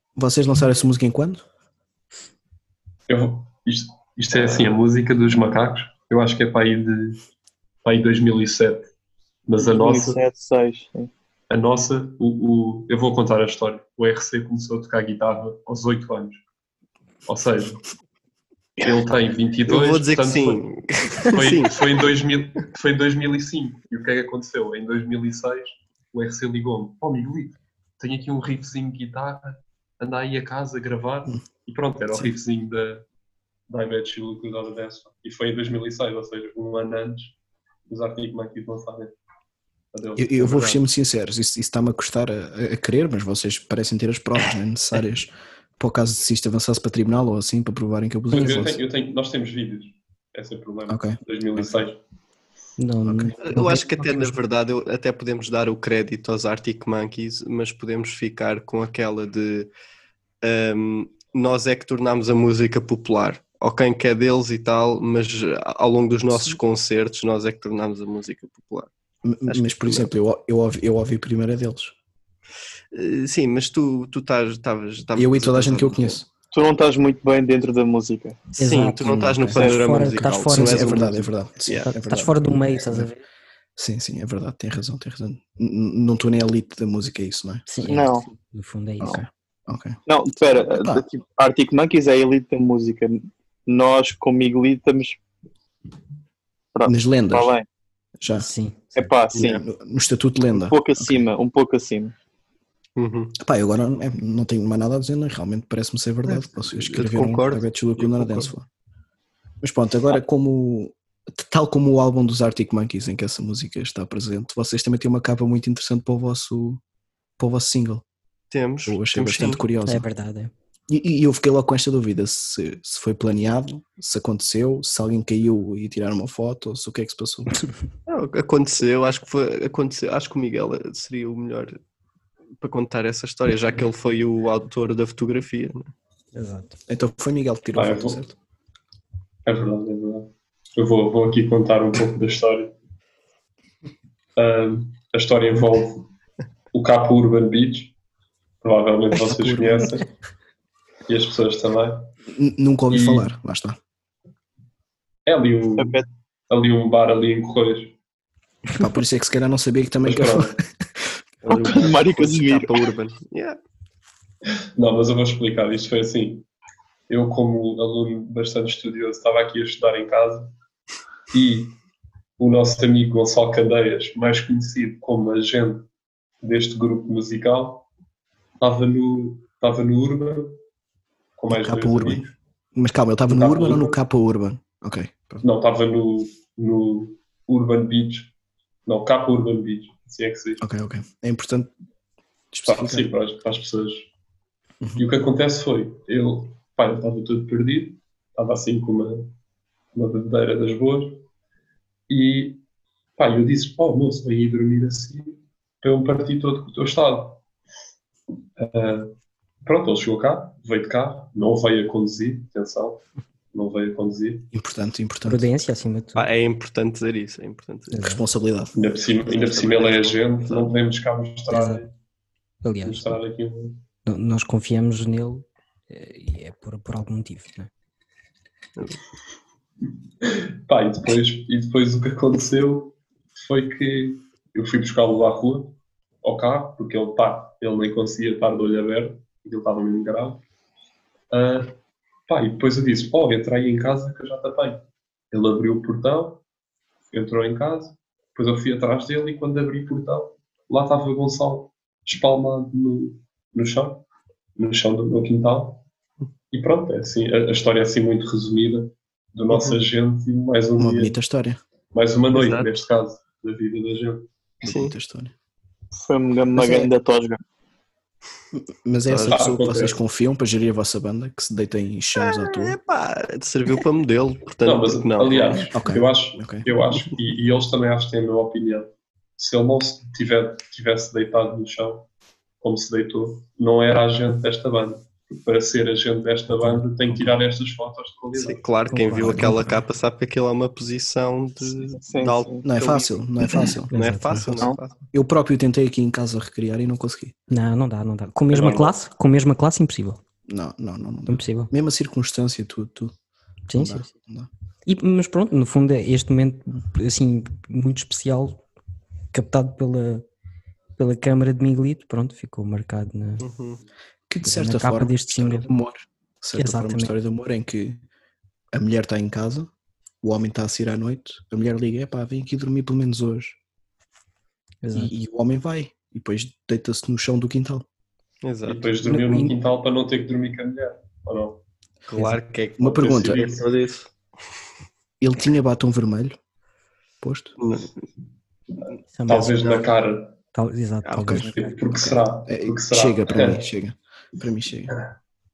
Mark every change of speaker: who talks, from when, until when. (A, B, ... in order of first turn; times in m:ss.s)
0:00.2-0:01.4 A
0:03.1-0:07.2 B
0:07.8-0:08.9 B
0:09.4-0:10.2 B
0:09.6-0:11.1 C
0:11.5-0:16.4 B
0:17.3-0:17.8 B
0:18.8-0:20.6 B
0:19.7-0:21.8 D
0:21.2-0:33.0 B
0:33.7-0:37.4 B
0:37.9-0:39.1 B
0:39.9-0:40.8 B
0:40.2-0:48.8 A
0:48.3-0:52.0 B
0:48.3-0:48.6 E
0:50.9-0:51.6 A
0:52.8-0:54.3 E
0:53.0-0:53.4 A
0:53.4-0:59.7 D
1:00.4-1:08.9 D
1:09.2-1:11.9 A
1:09.5-1:10.1 D
1:12.9-1:16.2 D
1:15.1-1:16.3 A
1:16.5-1:18.4 C
1:18.6-1:19.0 E
1:18.6-1:21.9 D
1:19.0-1:19.6 A
1:19.5-1:21.0 E
1:20.5-1:23.1 A
1:21.8-1:23.2 E
1:23.8-1:27.9 A
1:27.7-1:29.2 E
1:27.9-1:28.2 C
1:29.0-1:30.0 A
1:30.0-1:35.2 C
1:30.5-1:31.0 A
1:36.7-1:37.6 C
1:36.8-1:37.5 A
1:38.2-1:38.5 A
1:38.4-1:39.2 E
1:39.0-1:39.6 C
1:39.4-1:41.3 A
1:40.5-1:42.1 C
1:43.0-1:43.3 D
1:43.4-1:48.6 A
1:46.2-1:48.5 D
1:49.6-1:56.8 A
1:57.4-1:58.0 A
1:58.5-1:59.6 D
1:58.8-2:00.0 A
1:59.8-2:00.5 E
2:00.9-2:07.5 A
2:08.1-2:11.8 D
2:12.6-2:15.9 D
2:16.3-2:16.8 E
2:16.9-2:18.4 A
2:17.7-2:18.2 B
2:19.4-2:22.7 B
2:24.4-2:26.1 B
2:26.7-2:27.9 B
2:28.6-2:30.0 B
2:29.1-2:29.9 A
2:31.1-2:32.1 B
2:32.3-2:33.8 A
2:32.9-2:33.3 B
2:35.2-2:37.9 B
2:35.8-2:36.0 C
2:38.8-2:40.6 A
2:40.0-2:40.6 B
2:41.4-2:43.6 D
2:41.5-2:42.7 C
2:44.8-2:46.5 B
2:47.1-2:50.5 B
2:51.3-2:51.8 B
2:52.4-2:55.9 B
2:56.4-2:57.9 B
2:58.6-3:00.6 B
3:01.4-3:02.3 B
3:01.5-3:05.4 A
3:03.3-3:04.0 B
3:05.4-3:08.3 B
3:08.8-3:10.6 B
3:10.6-3:11.7 A
3:12.5-3:13.1 A
3:12.6-3:14.1 B
3:15.0-3:19.3 B
3:19.9-3:21.2 B
3:22.1-3:22.6 B
3:23.2-3:27.4 B
3:28.6-3:34.5 B
3:34.5-3:35.5 A
3:35.2-3:36.3 E
3:36.2-3:37.9 D
3:37.9-3:38.2 E
3:38.0-3:38.7 A
3:38.7-3:41.9 B
3:39.2-3:40.7 D
3:41.5-3:41.8 E
3:42.6-3:43.2 E
3:42.8-3:43.8 B
3:44.0-3:47.7 E
3:50.2-4:00.4 B
4:01.3-4:01.7 B
4:02.3-4:06.4 B
4:07.1-4:14.0 B
4:14.6-4:15.8 B
4:16.5-4:21.1 B
4:19.5-4:19.8 D
4:20.8-4:21.6 A
4:21.9-4:24.3 B
4:22.3-4:22.8 D
4:24.6-4:25.3 A
4:24.6-4:24.9 D
4:25.9-4:27.4 C
4:26.6-4:26.8 A
4:28.5-4:32.8 A
4:29.1-4:29.5 D
4:29.3-4:30.0 B
4:32.2-4:35.7 D
4:34.6-4:42.1 B
4:35.7-4:36.7 A
4:42.6-4:48.6 B
4:46.5-4:46.8 E
4:48.4-4:55.0 D
4:48.9-4:49.8 E
4:49.2-4:49.7 A
4:51.7-4:52.7 C
4:52.6-4:54.5 A
4:53.9-4:54.6 E
4:55.1-4:57.3 A
4:57.5-5:00.2 E
4:58.5-4:58.9 B
5:00.5-5:03.1 A
5:01.3-5:01.7 E
5:03.7-5:04.1 E
5:03.7-5:04.5 A
5:04.8-5:08.6 E
5:09.3-5:10.2 E
5:11.0-5:13.4 E
5:13.4-5:13.8 D
5:14.3-5:18.0 A
5:14.4-5:15.7 E
5:16.6-5:17.1 E
5:18.7-5:19.7 A
5:20.2-5:23.6 A
5:24.8-5:25.1 E
5:24.9-5:27.8 A
5:28.4-5:28.9 D
5:28.6-5:31.6 B
5:29.0-5:29.5 E
5:32.1-5:34.1 D
5:32.8-5:33.4 A
5:33.0-5:33.7 B
5:35.2-5:36.4 A
5:37.2-5:37.5 A
5:37.6-5:38.0 D
5:39.1-5:39.7 E
5:39.3-5:40.4 B
5:40.5-5:42.1 E
5:41.1-5:41.5 A
5:41.4-5:43.6 B
5:42.0-5:44.9 A